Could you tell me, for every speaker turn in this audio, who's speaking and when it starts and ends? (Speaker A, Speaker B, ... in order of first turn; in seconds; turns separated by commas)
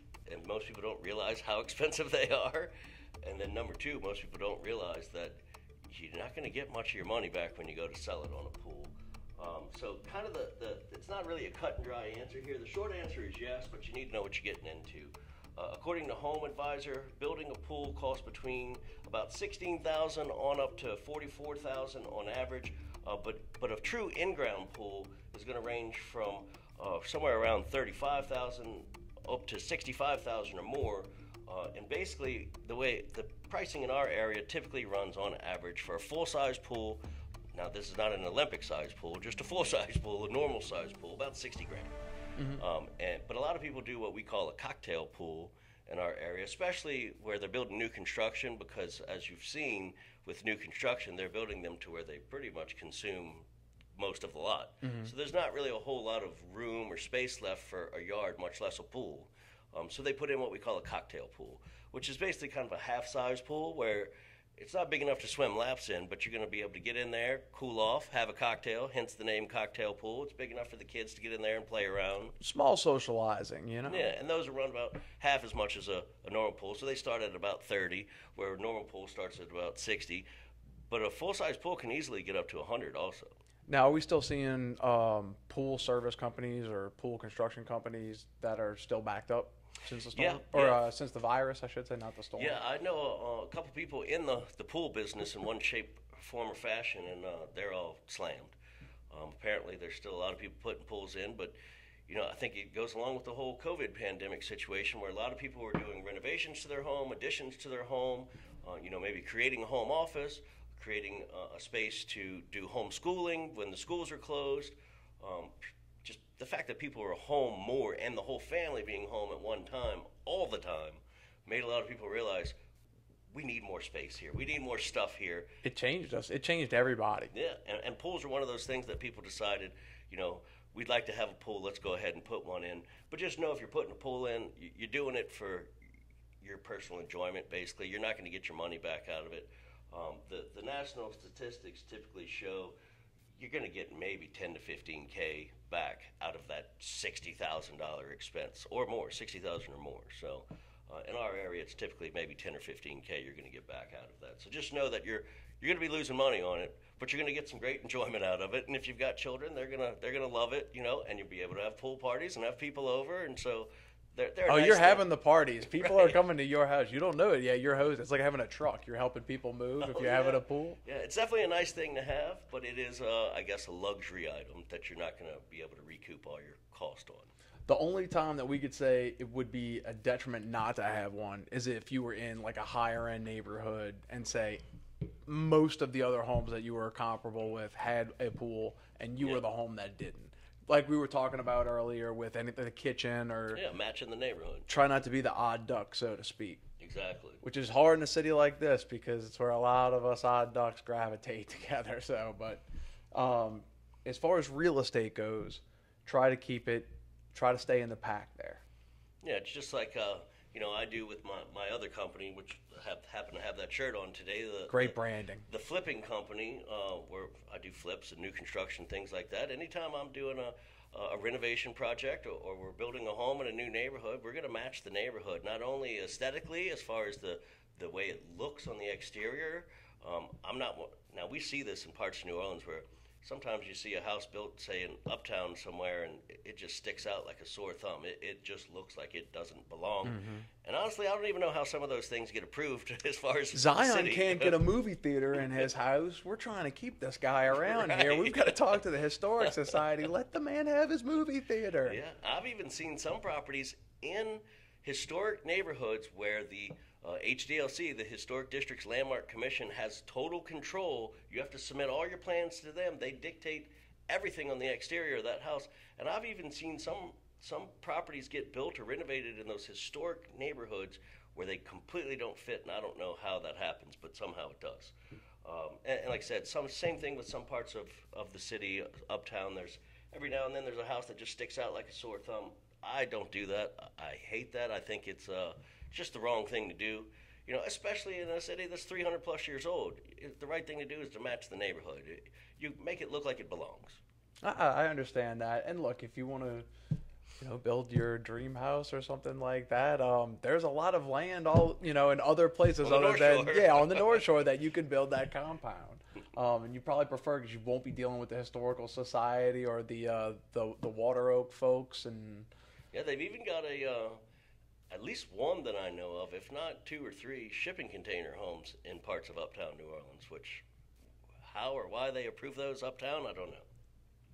Speaker A: 0.3-37.0, Speaker A: 37.5-42.0, Speaker B: 42.4-42.6, Speaker A: 42.6-53.5, Speaker A: 54.0-72.4, Speaker B: 54.8-55.1, Speaker B: 72.4-74.1, Speaker A: 73.9-80.3, Speaker A: 80.9-83.3, Speaker B: 83.7-92.6, Speaker A: 90.1-90.8, Speaker A: 92.4-98.5, Speaker A: 99.1-101.5, Speaker A: 102.1-122.6, Speaker A: 123.3-125.5, Speaker B: 125.6-127.3, Speaker A: 127.3-135.7, Speaker A: 136.4-142.8, Speaker A: 143.4-165.1, Speaker B: 164.5-170.8, Speaker A: 165.8-166.2, Speaker A: 169.8-177.3, Speaker B: 177.7-184.6, Speaker B: 185.2-193.6, Speaker A: 193.5-194.7, Speaker B: 194.7-196.6, Speaker A: 196.8-197.4, Speaker B: 197.4-208.6, Speaker A: 209.2-244.6, Speaker B: 214.7-215.5, Speaker B: 240.1-240.5, Speaker B: 243.5-252.0, Speaker A: 247.5-248.8, Speaker A: 251.9-294.0, Speaker B: 294.4-296.7, Speaker B: 297.4-312.5, Speaker A: 302.8-304.2, Speaker A: 312.9-314.2, Speaker A: 314.9-320.6, Speaker A: 321.4-323.7